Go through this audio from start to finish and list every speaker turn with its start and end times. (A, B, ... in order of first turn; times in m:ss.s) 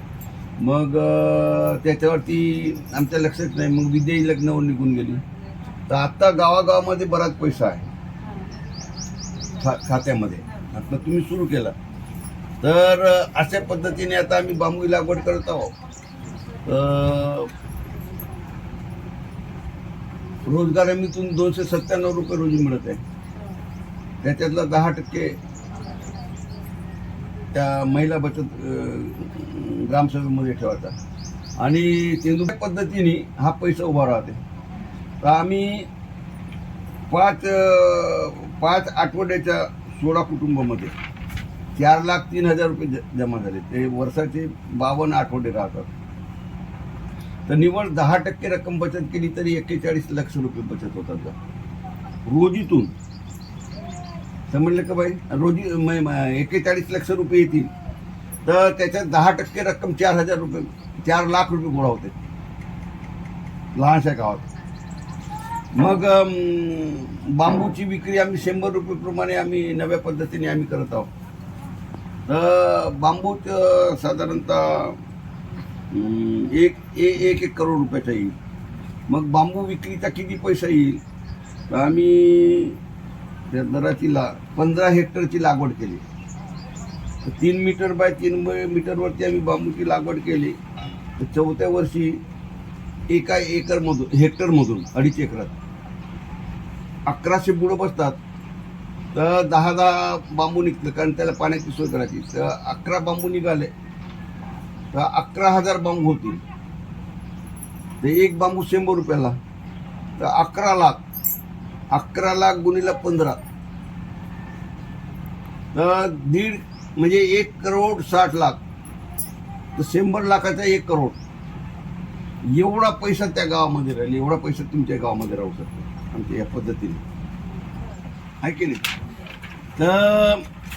0:00.6-0:05.2 A
0:05.9-0:07.9 A
0:09.5-0:11.8 A
0:12.6-0:15.7 A
0:16.6-0:17.5 A
0:20.4-0:23.0 A
0:24.2-0:25.4 A
0:27.5-0:31.0 A
0:31.6-0:34.4 A
0:35.2-0:35.9 A
0:37.1-0:41.0 A
0:41.8-0:45.9 A
0:47.5-0:51.4 A
0:52.3-0:52.9 A
0:54.5-0:57.7 A
0:58.5-1:02.1 A
1:03.8-1:04.4 A
1:05.7-1:11.1 A
1:12.3-1:15.0 A
1:15.9-1:18.4 A
1:19.1-1:21.0 A
1:21.7-1:22.8 A
1:23.5-1:26.0 A
1:27.2-1:30.6 A
1:31.2-1:32.2 A
1:33.1-1:35.5 A
1:37.1-1:38.2 A
1:39.1-1:43.7 A
1:44.9-1:46.4 A
1:48.0-1:49.4 A
1:50.2-1:51.0 A
1:51.9-1:53.4 A
1:55.7-1:58.6 A
1:59.8-2:01.2 A
2:02.5-2:07.0 A
2:08.4-2:08.8 A
2:09.8-2:10.4 A